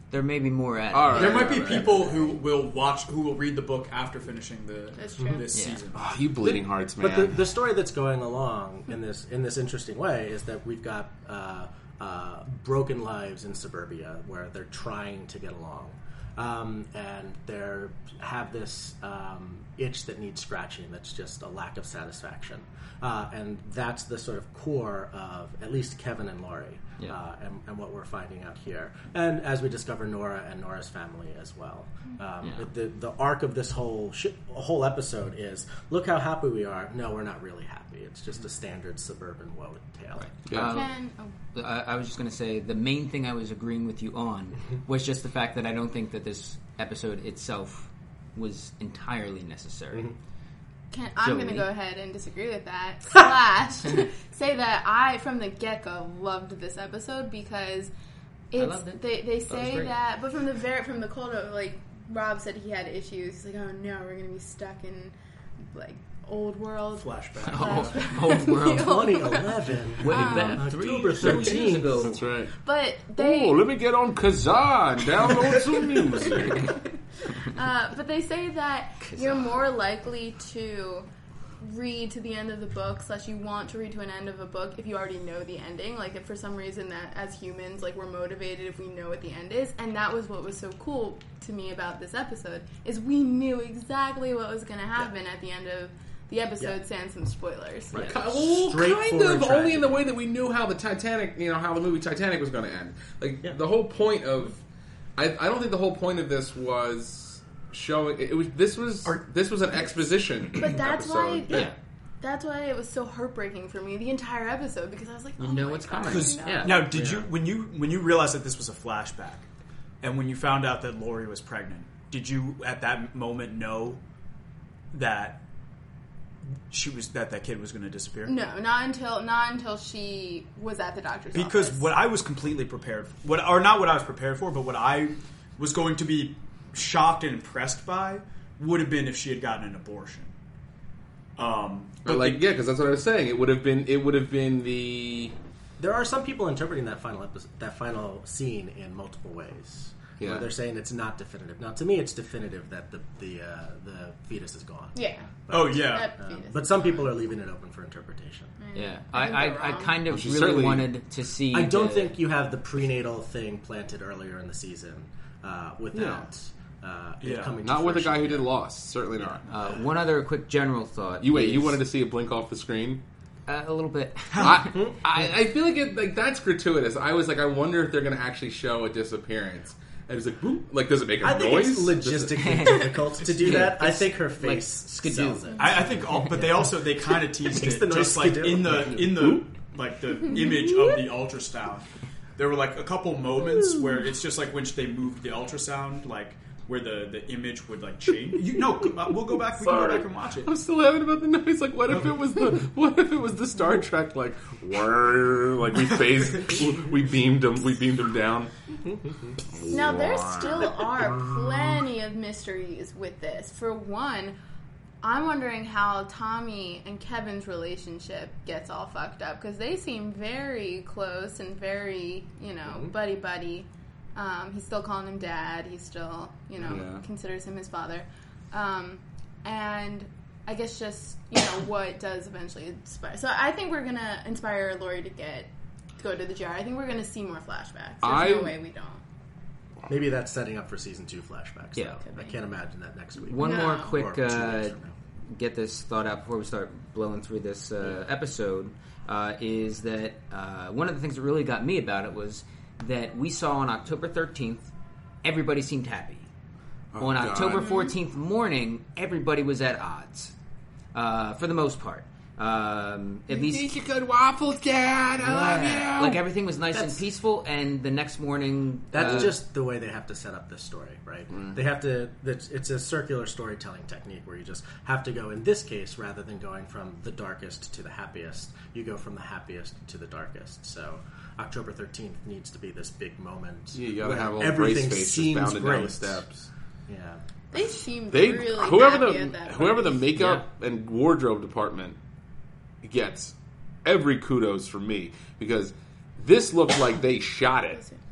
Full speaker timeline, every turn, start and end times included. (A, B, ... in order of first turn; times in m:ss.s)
0:00.1-0:01.6 A
0:00.9-0:02.0 B
0:01.1-0:06.1 C
0:01.5-0:02.4 D
0:05.0-0:05.5 E
0:05.5-0:05.8 A
0:05.9-0:07.4 B
0:06.4-0:40.3 D
0:40.1-0:41.0 A
0:40.5-0:40.8 B
0:40.6-0:41.3 E
0:41.5-0:50.1 A
0:50.9-0:57.9 E
0:51.2-0:51.7 A
0:58.5-1:05.1 E
0:58.6-1:00.0 A
1:05.7-1:10.6 E
1:07.0-1:08.2 C
1:07.4-1:09.0 A
1:08.6-1:12.1 D
1:10.0-1:12.2 A
1:11.2-1:12.5 B
1:12.6-1:13.6 E
1:13.2-1:16.8 B
1:16.2-1:21.1 E
1:19.0-1:19.6 A
1:21.6-1:38.1 E
1:37.9-1:40.1 D
1:38.0-1:44.6 B
1:45.2-1:51.7 B
1:50.6-1:57.0 E
1:51.5-1:51.8 A
1:55.4-1:56.9 A
1:56.0-1:59.5 C
1:56.8-1:57.3 D
2:00.0-2:04.0 C
2:04.9-2:05.4 C
2:06.7-2:08.3 C
2:08.2-2:11.9 E
2:11.3-2:20.3 C
2:21.4-2:22.4 C
2:22.0-2:25.3 B
2:25.8-2:38.6 D
2:30.2-2:30.5 B
2:35.0-2:37.1 E
2:35.5-2:36.1 C
2:38.6-2:40.0 E
2:38.8-2:42.2 A
2:40.1-2:40.9 B
2:41.5-2:48.6 D
2:45.9-2:46.2 B
2:47.2-2:47.6 C
2:47.6-2:49.4 B
2:49.5-2:51.8 A
2:51.2-2:53.0 B
2:53.5-2:55.3 A
2:54.4-3:02.9 B
3:01.2-3:05.9 D
3:02.3-3:06.6 A
3:05.6-3:05.8 E
3:05.6-3:11.8 C
3:07.5-3:09.2 D
3:12.4-3:20.5 C
3:19.6-3:28.5 B
3:29.5-3:30.9 B
3:29.7-3:34.4 E
3:35.0-3:59.0 E
3:46.6-3:47.0 B
3:58.0-3:58.6 B
3:59.9-4:05.0 D
4:02.0-4:02.3 E
4:03.3-4:14.7 A
4:03.4-4:04.0 E
4:15.2-4:16.3 A
4:16.9-4:17.7 B
4:17.0-4:20.3 A
4:17.5-4:17.9 E
4:20.9-4:23.7 A
4:23.3-4:26.2 B
4:25.2-4:29.4 A
4:26.7-4:27.0 D
4:28.9-4:46.2 D
4:43.8-4:46.5 B
4:46.9-4:47.2 D
4:47.5-4:50.1 E
4:48.1-4:52.0 B
4:50.2-4:50.4 A
4:52.8-4:57.8 B
4:57.7-4:58.0 E